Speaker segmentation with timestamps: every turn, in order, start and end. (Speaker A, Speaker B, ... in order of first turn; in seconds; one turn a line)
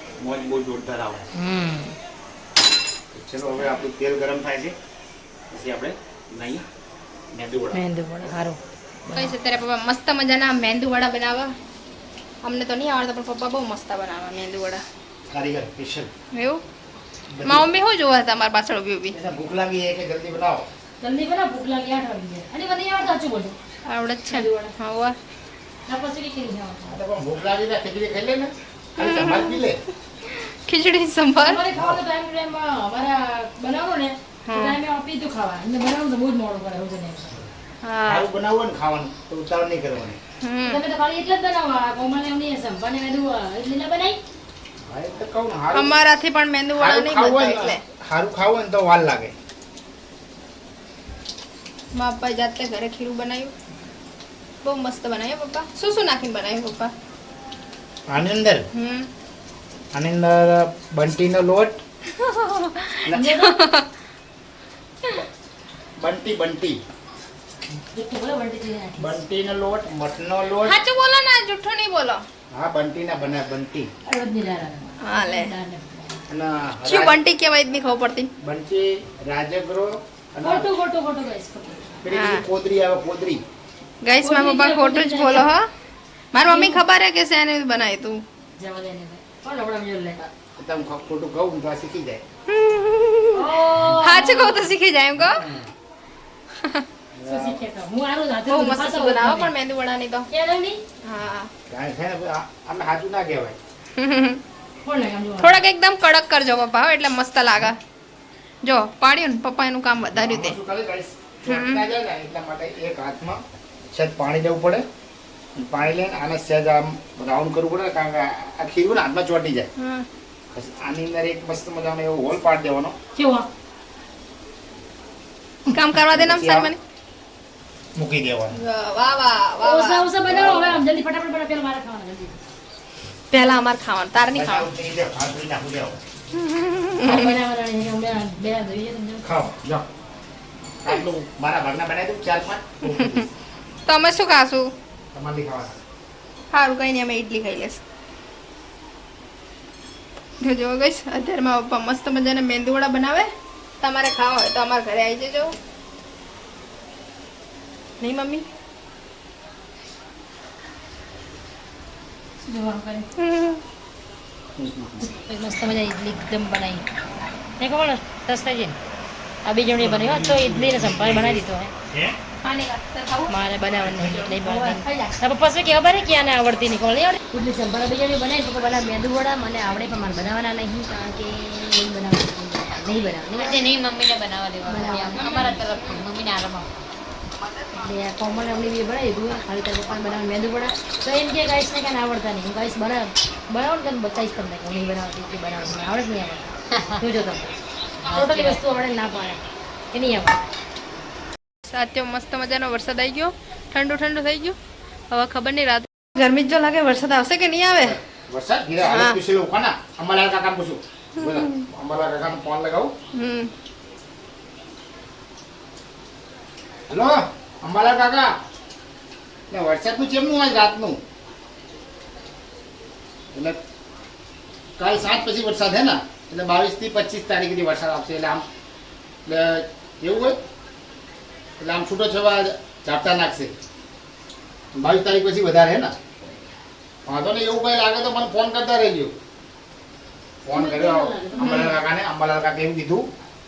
Speaker A: 0.2-1.3
Speaker B: 1.4-2.0
Speaker A: 3.1-4.8
Speaker A: 5.5-6.7
Speaker A: 7.3-7.8
Speaker B: 7.7-9.3
Speaker C: 9.2-11.5
Speaker C: 12.4-14.8
Speaker A: 15.3-16.1
Speaker C: 16.4-16.6
Speaker A: 17.3-17.7
Speaker C: 17.4-19.1
Speaker A: 19.1-20.7
Speaker B: 21.0-23.6
Speaker C: 23.9-25.2
Speaker B: 24.3-24.7
Speaker B: 25.9-27.0
Speaker A: 26.9-29.8
Speaker C: 29.0-29.6
Speaker C: 30.3-31.6
Speaker B: 31.4-37.4
Speaker A: 31.7-32.0
Speaker C: 34.5-34.8
Speaker C: 37.8-38.3
Speaker A: 38.1-40.2
Speaker C: 40.4-40.8
Speaker B: 40.6-44.2
Speaker A: 44.9-46.0
Speaker C: 45.7-47.8
Speaker A: 46.8-49.4
Speaker C: 51.9-53.5
Speaker C: 54.6-56.9
Speaker A: 58.1-58.7
Speaker C: 58.7-59.1
Speaker A: 59.9-61.8
Speaker C: 62.2-63.9
Speaker A: 63.1-63.3
Speaker B: 63.1-63.6
Speaker A: 66.0-66.8
Speaker B: 67.9-69.2
Speaker A: 69.0-70.8
Speaker C: 70.6-72.2
Speaker A: 72.5-73.9
Speaker B: 74.0-76.2
Speaker C: 75.0-75.5
Speaker A: 76.3-77.2
Speaker C: 76.8-78.3
Speaker A: 78.4-80.7
Speaker B: 80.4-82.0
Speaker A: 82.0-83.4
Speaker C: 82.1-82.4
Speaker C: 84.0-85.7
Speaker B: 84.2-85.5
Speaker C: 86.3-88.2
Speaker B: 86.4-86.8
Speaker B: 88.6-90.2
Speaker A: 90.2-92.2
Speaker C: 92.5-95.4
Speaker B: 93.3-94.7
Speaker A: 95.2-95.7
Speaker A: 97.2-97.6
Speaker B: 97.3-99.5
Speaker C: 98.5-100.3
Speaker B: 100.3-100.8
Speaker C: 101.1-101.5
Speaker A: 101.7-103.6
Speaker C: 104.0-104.4
Speaker B: 104.8-105.6
Speaker C: 105.4-107.8
Speaker C: 108.6-110.6
Speaker A: 110.1-114.9
Speaker C: 111.5-111.8
Speaker A: 115.5-119.7
Speaker C: 119.8-120.1
Speaker A: 120.5-123.0
Speaker B: 123.2-123.5
Speaker C: 125.7-126.8
Speaker A: 126.0-126.7
Speaker A: 128.0-128.6
Speaker C: 128.5-130.1
Speaker B: 129.6-132.4
Speaker A: 130.2-130.8
Speaker C: 133.3-134.7
Speaker A: 134.3-136.0
Speaker C: 136.4-137.4
Speaker B: 137.0-139.3
Speaker A: 139.2-139.9
Speaker A: 140.8-143.3
Speaker C: 142.9-143.2
Speaker C: 143.9-144.7
Speaker A: 145.1-145.8
Speaker C: 146.5-147.8
Speaker C: 150.4-153.3
Speaker C: 153.8-155.6
Speaker C: 158.0-158.4
Speaker B: 162.4-163.1
Speaker C: 163.2-163.6
Speaker A: 164.6-165.1
Speaker B: 165.0-166.9
Speaker B: 167.6-168.8
Speaker B: 169.4-171.7
Speaker A: 169.8-172.2
Speaker C: 172.4-173.3
Speaker B: 173.3-183.6
Speaker D: 174.3-175.2
Speaker D: 183.3-186.7
Speaker B: 184.7-185.6
Speaker C: 185.2-186.0
Speaker B: 187.8-197.6
Speaker D: 198.0-198.6
Speaker B: 198.1-200.4
Speaker C: 201.7-204.6
Speaker C: 205.1-208.0
Speaker A: 207.9-212.9
Speaker C: 208.8-209.2
Speaker C: 211.2-211.7
Speaker C: 213.2-213.5
Speaker A: 216.9-218.3
Speaker A: 219.5-221.0
Speaker A: 223.3-223.6
Speaker A: 224.8-228.4
Speaker A: 229.2-230.4
Speaker A: 231.6-233.5
Speaker A: 234.8-236.0
Speaker A: 237.1-239.1
Speaker A: 240.4-243.1
Speaker B: 240.5-241.8